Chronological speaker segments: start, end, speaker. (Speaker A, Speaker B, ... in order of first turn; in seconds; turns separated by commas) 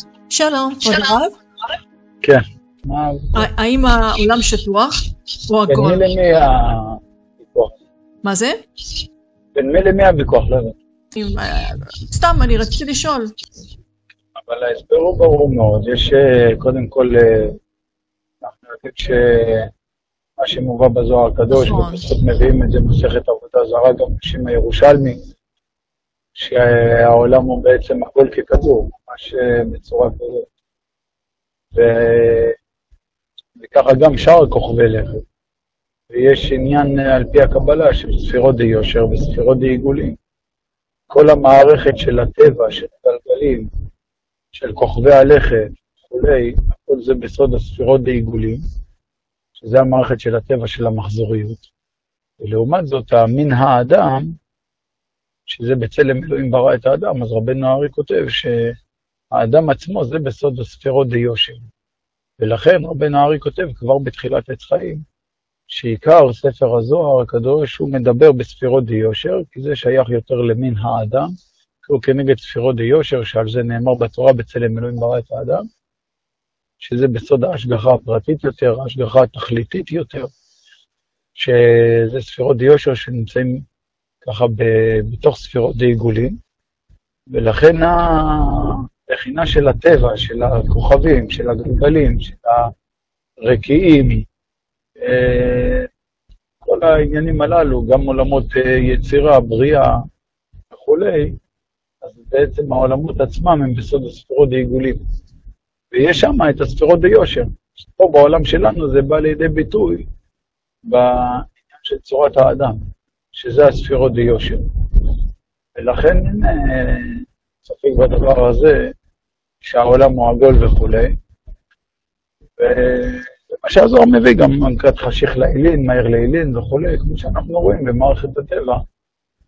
Speaker A: 0.3-1.4, Speaker B: 2.2-3.5, Speaker A: 3.4-6.1, Speaker B: 5.7-7.8, Speaker A: 8.2-8.6, Speaker B: 9.6-10.8, Speaker A: 11.2-13.3, Speaker B: 14.4-17.6, Speaker B: 18.4-19.7, Speaker B: 20.4-25.2, Speaker A: 21.5-22.0, Speaker B: 26.4-30.5, Speaker B: 31.7-32.6, Speaker B: 33.6-35.2, Speaker B: 36.1-40.2, Speaker B: 41.1-43.7, Speaker B: 44.5-48.6, Speaker B: 49.6-51.7, Speaker B: 52.4-54.4, Speaker B: 55.5-58.8, Speaker B: 59.3-61.7, Speaker B: 62.4-65.0, Speaker B: 65.7-75.7, Speaker B: 76.8-80.3, Speaker B: 81.3-83.7, Speaker B: 84.2-86.4, Speaker B: 87.3-92.7, Speaker B: 93.4-94.3, Speaker B: 95.0-95.9, Speaker B: 96.7-100.0, Speaker B: 100.7-101.4, Speaker B: 102.0-105.0, Speaker B: 105.9-110.1, Speaker B: 110.9-112.8, Speaker B: 113.3-115.1, Speaker B: 115.8-119.0, Speaker B: 119.6-121.1, Speaker B: 122.6-128.8